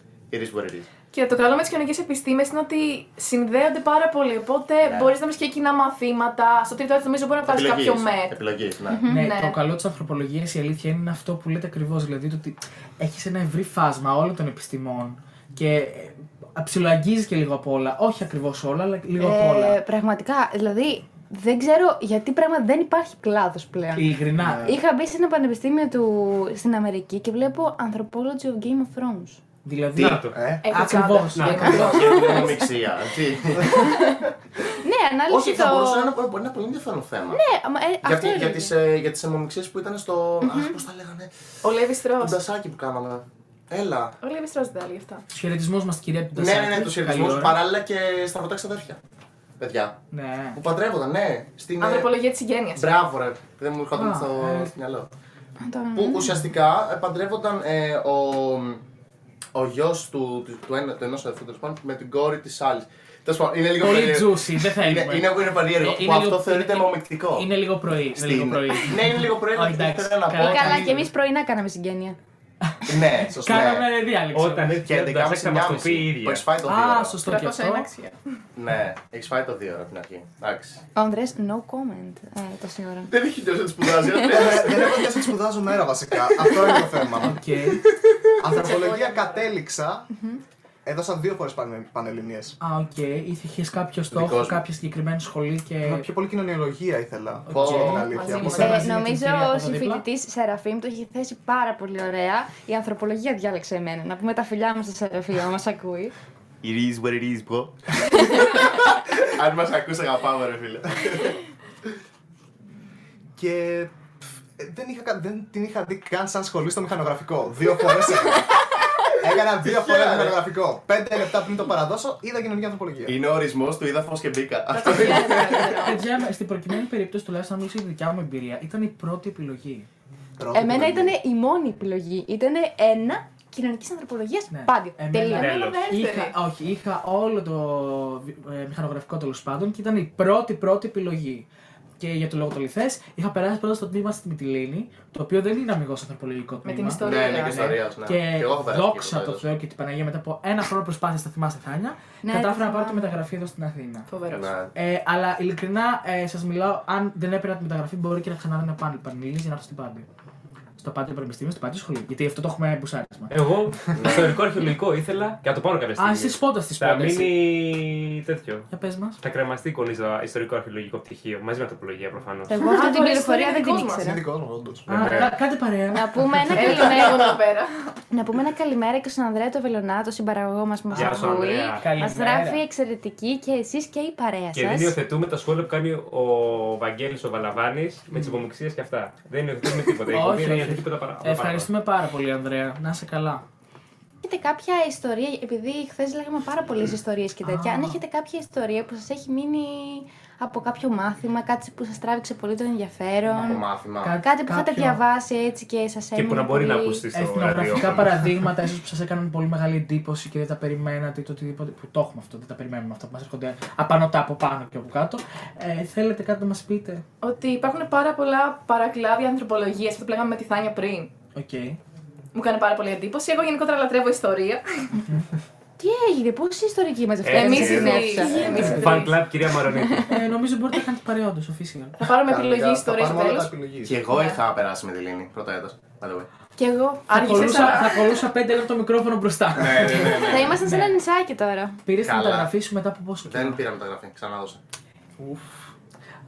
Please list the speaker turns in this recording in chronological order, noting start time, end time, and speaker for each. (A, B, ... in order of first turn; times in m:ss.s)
0:00.3-0:00.9 A
0:01.1-0:08.4 B
0:04.8-0:05.1 A
0:07.4-0:09.1 A
0:08.9-0:09.3 C
0:09.1-0:19.8 D
0:09.1-0:09.6 B
0:19.2-0:24.1 C
0:24.0-0:24.7 D
0:24.4-0:24.8 E
0:24.6-0:29.4 C
0:29.6-0:32.0 D
0:30.0-0:30.4 F
0:30.3-0:30.8 E
0:30.6-0:32.6 B
0:31.3-0:32.2 F
0:31.6-0:34.4 A
0:31.9-0:32.6 C
0:33.7-0:34.2 C
0:34.8-0:36.1 C
0:35.3-0:37.4 A
0:37.3-0:38.7 C
0:38.0-0:41.5 A
0:40.4-0:40.8 C
0:41.6-0:42.4 B
0:42.2-0:44.2 A
0:44.2-0:45.2 B
0:45.3-0:47.6 D
0:46.4-0:49.0 A
0:49.6-0:50.0 A
0:50.1-0:50.6 D
0:50.5-0:52.1 A
0:51.8-0:53.0 B
0:52.7-0:55.1 A
0:53.9-0:54.7 D
0:55.6-0:56.4 C
0:56.0-0:58.8 A
0:59.5-1:07.5 A
1:03.8-1:11.0 D
1:08.1-1:11.0 A
1:10.3-1:12.2 C
1:12.6-1:14.8 D
1:12.9-1:13.9 A
1:14.3-1:16.4 F
1:14.9-1:17.2 A
1:16.6-1:17.9 D
1:17.2-1:18.2 B
1:18.6-1:20.8 A
1:21.0-1:23.1 C
1:23.1-1:25.1 A
1:24.2-1:27.4 E
1:27.2-1:27.8 D
1:28.4-1:30.1 E
1:28.6-1:29.5 B
1:30.1-1:30.4 C
1:30.8-1:32.6 E
1:32.6-1:36.1 D
1:34.1-1:34.6 A
1:35.8-1:38.8 E
1:37.5-1:40.0 D
1:37.5-1:38.2 A
1:38.1-1:38.9 B
1:38.6-1:46.1 C
1:46.6-1:51.4 A
1:53.4-1:53.9 E
1:54.6-1:58.5 E
1:59.2-2:03.2 E
1:59.6-2:00.4 A
2:03.1-2:05.8 A
2:04.7-2:06.0 B
2:05.8-2:09.9 D
2:10.4-2:11.1 E
2:10.5-2:15.5 C
2:14.5-2:21.4 D
2:15.3-2:16.4 B
2:15.4-2:15.9 F
2:22.0-2:34.1 D
2:26.6-2:27.8 B
2:27.0-2:29.4 A
2:32.2-2:33.1 C
2:34.1-2:34.5 B
2:34.3-2:34.7 A
2:34.7-2:40.1 D
2:40.8-2:43.3 D
2:43.3-2:48.7 F
2:43.9-2:44.4 A
2:46.0-2:47.4 D
2:48.7-2:49.2 D
2:49.2-2:52.6 F
2:52.5-2:54.2 C
2:52.6-2:54.1 B
2:54.0-2:55.2 E
2:54.9-2:56.8 D
2:54.9-2:55.3 F
2:55.9-2:57.3 C
2:56.5-2:57.9 B
2:58.1-3:05.0 C
3:00.9-3:02.6 D
3:00.9-3:01.9 F
3:04.5-3:11.7 F
3:08.1-3:08.4 D
3:10.1-3:13.4 D
3:14.2-3:23.6 C
3:17.4-3:18.0 D
3:23.3-3:25.0 D
3:23.4-3:24.2 A
3:24.2-3:27.0 C
3:26.1-3:28.1 F
3:27.1-3:37.0 D
3:37.2-3:41.1 B
3:41.4-3:41.8 D
3:42.3-3:44.9 B
3:45.8-3:49.1 C
3:47.2-3:50.2 F
3:47.3-3:49.2 B
3:48.3-3:49.0 D
3:49.7-3:50.1 C
3:50.1-3:52.0 D
3:52.0-3:53.5 B
3:52.3-3:54.0 E
3:53.8-3:56.3 A
3:56.6-3:57.1 C
3:56.6-3:58.1 B
3:57.1-4:01.0 D
3:57.4-3:57.8 A
3:59.6-4:00.6 A
4:00.2-4:01.8 C
4:01.9-4:03.6 D
4:02.0-4:02.5 A
4:03.2-4:04.6 A
4:05.2-4:05.5 D